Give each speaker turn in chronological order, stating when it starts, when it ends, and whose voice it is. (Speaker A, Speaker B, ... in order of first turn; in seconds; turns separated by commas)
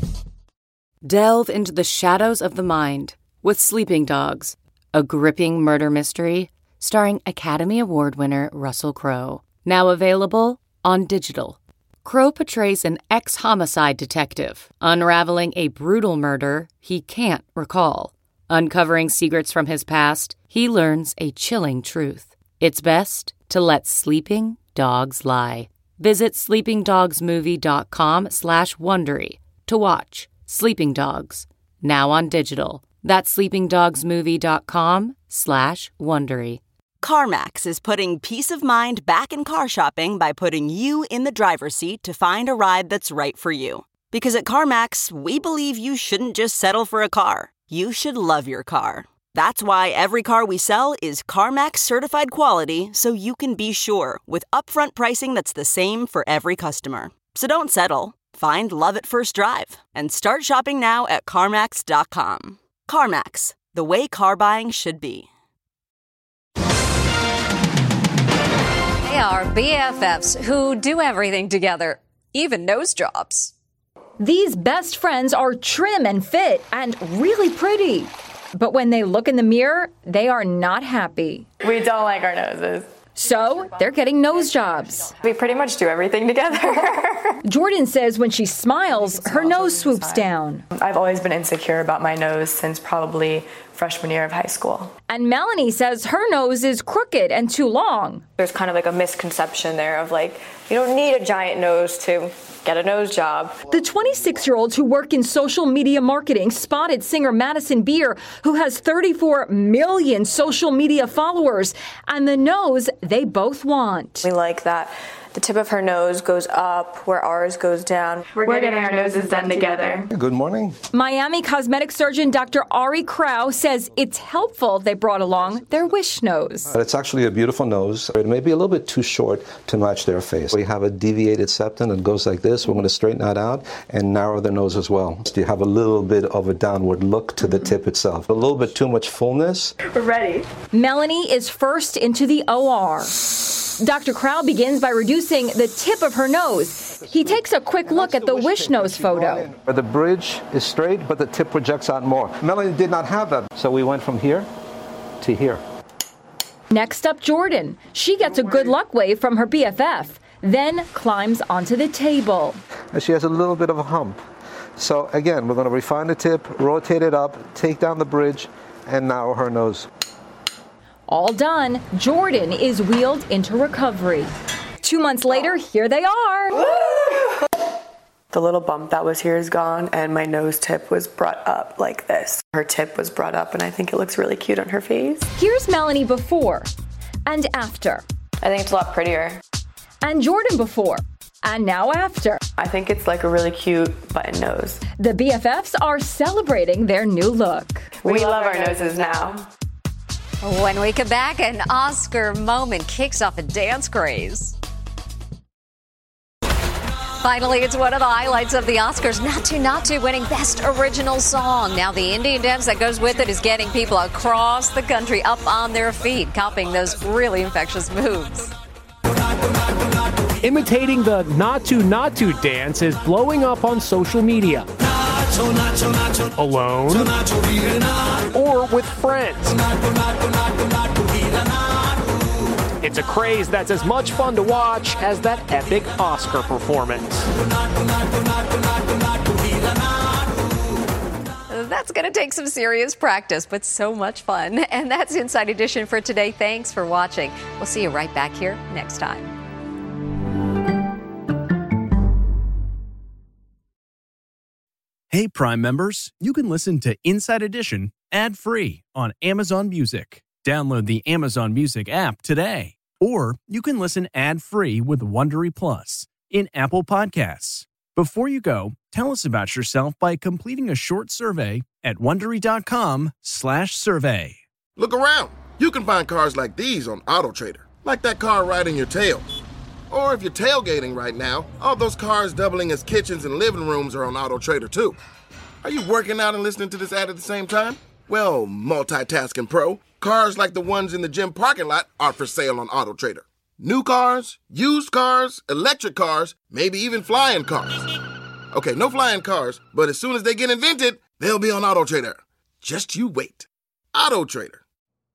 Speaker A: 1.0-36.6, Speaker B: 37.0-65.3, Speaker C: 69.0-73.5, Speaker D: 74.2-81.5, Speaker E: 81.6-82.9, Speaker D: 83.2-85.1, Speaker E: 85.2-87.4, Speaker D: 87.4-90.6, Speaker E: 88.9-94.9, Speaker D: 95.1-98.3, Speaker E: 98.4-103.6, Speaker D: 103.7-114.2, Speaker E: 114.2-118.8, Speaker F: 118.3-120.1, Speaker G: 120.1-120.8, Speaker D: 120.9-126.7, Speaker G: 126.7-139.7, Speaker E: 139.8-140.4, Speaker D: 140.7-143.2, Speaker D: 143.8-149.5, Speaker G: 146.9-154.5, Speaker G: 155.2-155.6, Speaker D: 156.7-162.6, Speaker G: 162.9-164.2, Speaker G: 164.8-169.8, Speaker D: 171.1-176.6, Speaker E: 176.5-177.3, Speaker E: 178.3-185.3, Speaker D: 185.3-186.7, Speaker D: 187.2-188.0, Speaker E: 188.4-189.4, Speaker D: 190.0-192.4, Speaker E: 192.6-194.8, Speaker D: 195.0-197.9, Speaker E: 198.0-199.4, Speaker F: 198.1-199.2, Speaker C: 200.4-204.6, Speaker C: 207.2-218.5, Speaker H: 220.4-224.7, Speaker H: 226.3-227.2, Speaker H: 228.3-229.6, Speaker H: 232.8-237.3, Speaker C: 241.5-249.3, Speaker I: 255.1-274.4, Speaker J: 274.8-279.2, Speaker J: 279.9-284.9, Speaker J: 285.6-297.8, Speaker J: 298.5-304.6